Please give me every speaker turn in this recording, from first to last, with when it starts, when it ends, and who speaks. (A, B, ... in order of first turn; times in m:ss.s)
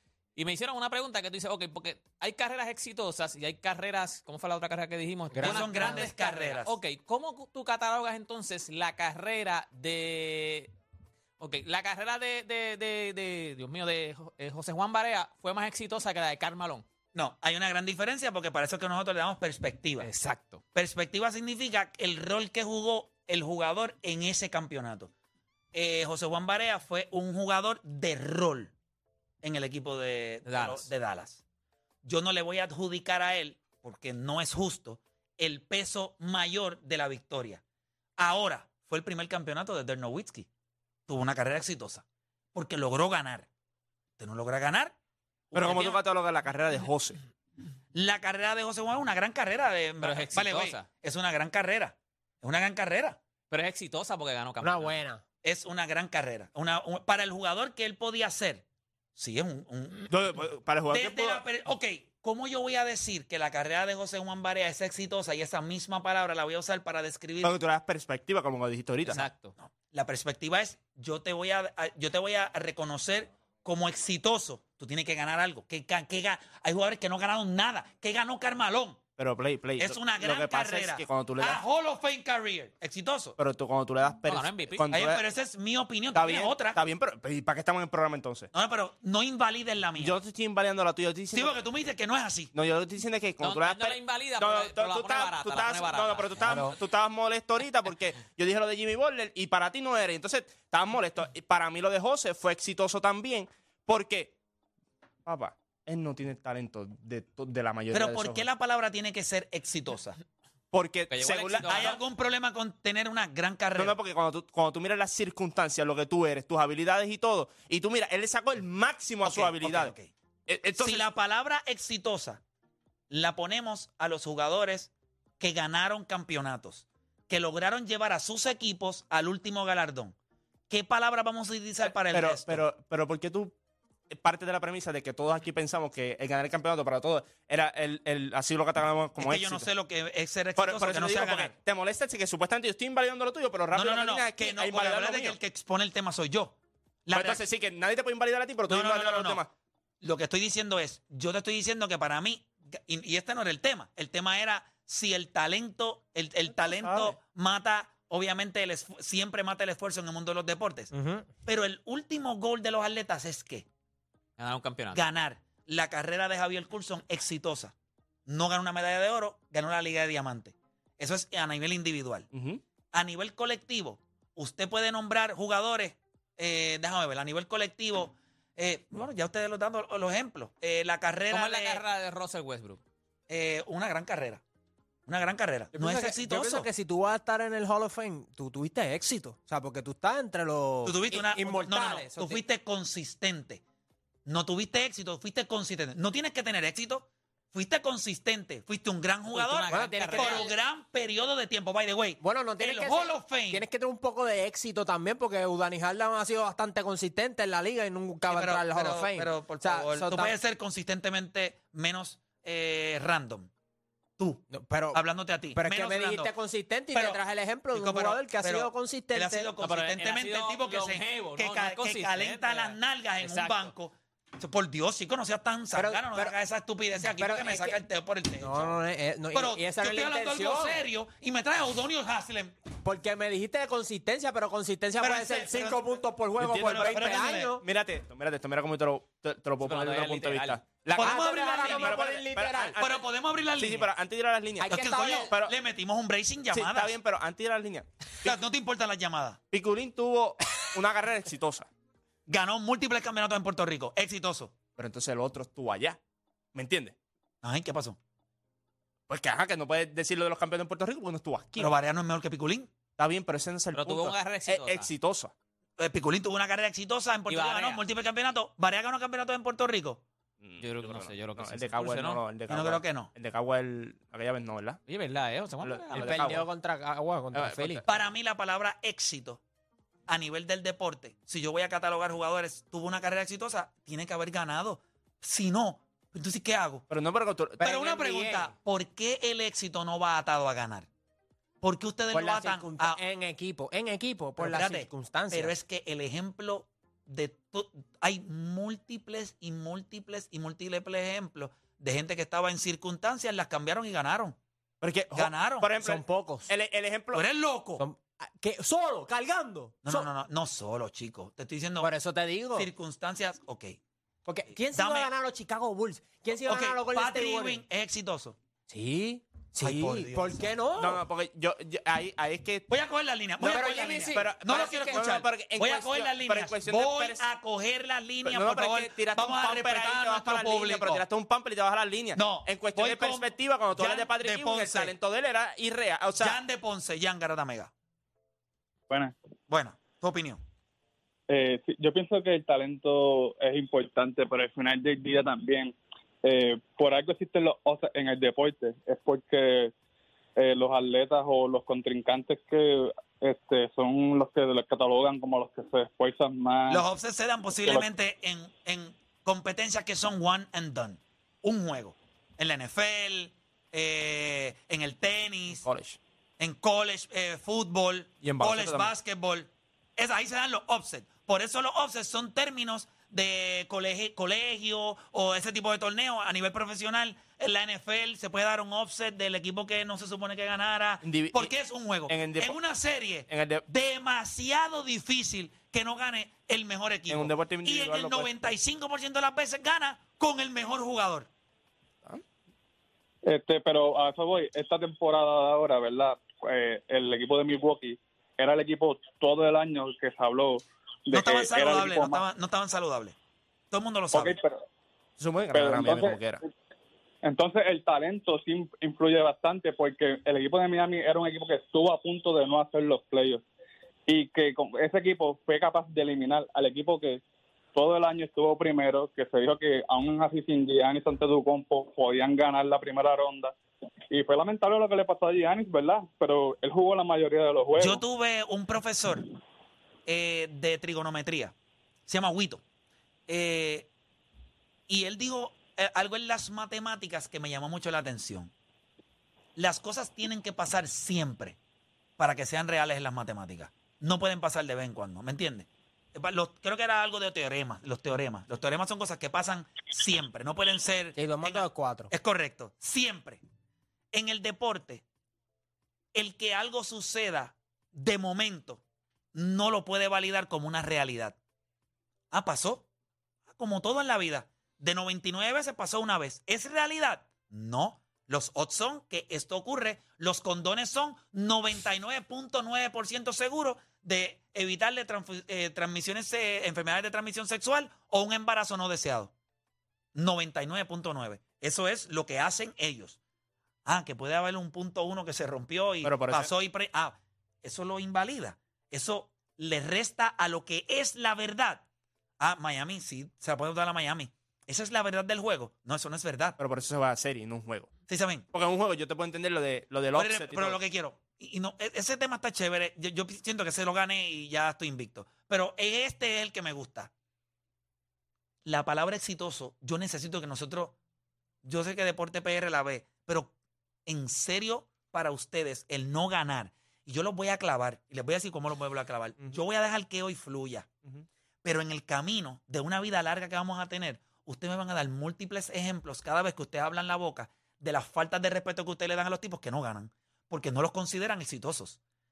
0:00.4-0:10.7 A
0:05.3-0:06.1 B
0:05.4-0:06.7 C
0:11.4-0:16.8 A
0:17.1-0:20.1 C
0:20.1-0:20.6 B
0:20.7-0:25.1 C
0:25.7-0:28.7 C
0:29.4-0:31.4 C
0:30.4-0:30.9 A
0:32.0-0:37.6 C
0:38.2-0:40.5 C
0:41.1-0:43.5 C
0:44.2-0:45.0 C
0:45.5-0:46.0 C
0:45.5-0:47.2 D
0:47.9-0:53.2 C
0:50.0-0:50.9 A
0:53.5-0:54.9 A
0:54.6-0:55.2 B
0:55.4-0:58.6 C
0:59.2-1:00.1 C
1:00.1-1:01.4 D
1:00.9-1:07.6 C
1:07.4-1:09.3 D
1:09.0-1:09.5 A
1:09.6-1:19.0 C
1:19.2-1:21.6 D
1:19.8-1:23.4 C
1:23.4-1:25.2 D
1:24.3-1:24.8 A
1:24.9-1:26.8 C
1:26.1-1:28.5 D
1:28.5-1:30.2 C
1:30.0-1:31.6 D
1:31.3-1:32.5 C
1:32.5-1:44.3 D
1:33.4-1:36.7 A
1:45.2-1:48.4 D
1:47.9-1:50.2 C
1:50.7-1:52.0 D
1:51.1-1:52.0 A
1:51.6-1:54.0 C
1:53.8-1:59.9 D
1:59.2-2:00.1 C
2:00.5-2:01.0 D
2:00.8-2:02.4 C
2:03.1-2:10.1 C
2:10.7-2:12.6 C
2:12.1-2:13.5 D
2:14.1-2:19.7 D
2:19.2-2:21.5 C
2:20.6-2:25.4 D
2:23.7-2:27.4 C
2:27.1-2:29.5 D
2:28.7-2:29.4 C
2:30.0-2:40.9 C
2:36.8-2:37.1 D
2:40.9-2:41.3 B
2:41.4-2:43.6 C
2:44.4-2:45.0 A
2:44.9-2:47.7 C
2:48.3-2:52.3 C
2:52.3-2:52.6 D
2:52.9-3:01.8 C
3:01.3-3:02.8 A
3:03.3-3:04.4 C
3:05.0-3:06.7 C
3:05.7-3:12.4 B
3:10.8-3:13.6 C
3:14.2-3:23.6 C
3:19.3-3:20.5 A
3:19.7-3:20.5 B
3:22.2-3:30.3 B
3:28.3-3:33.5 C
3:34.2-3:36.3 C
3:34.5-3:35.0 B
3:35.5-3:39.5 B
3:36.9-3:37.2 C
3:37.7-3:48.8 C
3:39.6-3:43.7 A
3:45.7-3:46.3 B
3:47.1-3:47.8 B
3:48.4-3:50.8 B
3:49.3-3:52.6 C
3:52.8-3:57.6 B
3:55.0-3:55.8 C
3:56.4-4:03.0 D
3:56.8-3:57.6 C
3:59.6-4:00.6 A
4:00.9-4:02.0 C
4:01.0-4:02.8 B
4:02.8-4:03.9 C
4:03.6-4:05.5 D
4:04.6-4:05.3 B
4:04.6-4:07.0 C
4:06.5-4:08.3 D
4:08.2-4:09.4 C
4:09.5-4:11.7 D
4:12.3-4:14.6 C
4:14.8-4:16.0 D
4:16.5-4:16.9 D
4:17.4-4:18.0 C
4:19.1-4:21.7 D
4:21.6-4:22.7 C
4:23.0-4:25.3 D
4:23.7-4:24.9 A
4:25.8-4:30.0 C
4:27.3-4:27.8 A
4:30.4-4:34.8 D
4:30.6-4:32.2 A
4:32.5-4:33.1 C
4:34.9-4:36.3 A
4:35.6-4:36.4 D
4:35.9-4:37.8 B
4:37.3-4:37.9 D
4:37.8-4:39.4 C
4:40.1-4:46.9 C
4:46.9-4:47.6 D
4:47.6-4:48.5 B
4:47.6-4:50.9 C
4:51.6-4:53.0 C
4:52.1-4:55.5 B
4:54.4-5:04.4 C
5:04.8-5:07.2 D
5:05.1-5:05.7 C
5:05.8-5:06.5 B
5:07.1-5:07.8 C
5:07.8-5:10.1 B
5:09.8-5:11.9 C
5:11.8-5:12.7 B
5:12.5-5:13.8 C
5:14.2-5:17.6 B
5:14.7-5:15.1 C
5:16.4-5:18.4 C
5:18.7-5:21.0 B
5:19.6-5:20.5 C
5:20.8-5:22.7 D
5:22.7-5:31.0 C
5:23.4-5:25.0 B
5:23.4-5:27.2 D
5:28.2-5:36.4 D
5:32.1-5:34.9 C
5:36.2-5:37.7 C
5:38.9-5:39.1 E
5:39.5-5:40.4 C
5:41.3-5:49.7 E
5:50.4-5:56.8 E
5:56.7-6:05.6 C
6:05.6-6:06.0 D
6:06.4-6:31.3 C
6:08.2-6:08.9 D
6:21.0-6:21.5 D
6:22.1-6:22.6 D
6:23.3-6:23.6 D
6:27.1-6:28.5 D
6:33.2-6:42.2 E
6:41.1-6:43.1 C
6:43.7-6:44.4 C
6:44.1-6:44.6 E
6:45.2-6:46.4 D
6:45.5-6:46.2 E
6:47.2-6:53.4 E
6:54.1-6:57.2 E
6:57.7-7:03.5 E
7:04.1-7:08.0 E
7:07.8-7:09.3 C
7:10.0-7:11.5 C
7:12.1-7:12.6 C
7:13.3-7:13.9 C
7:14.9-7:18.5 C
7:19.6-7:21.6 C
7:22.2-7:33.4 C
7:31.2-7:32.1 B
7:34.1-7:35.0 C
7:36.1-7:38.8 C
7:39.3-7:41.4 C
7:42.3-7:42.9 C
7:43.5-7:59.3 C
8:00.1-8:03.2 C
8:03.8-8:11.8 C
8:06.0-8:06.5 D
8:12.4-8:16.6 C
8:16.6-8:17.9 D
8:18.1-8:18.5 C
8:18.5-8:20.8 D
8:20.1-8:27.1 C
8:28.6-8:30.9 C
8:31.6-8:33.5 C
8:34.0-8:40.9 C
8:41.6-8:52.0 C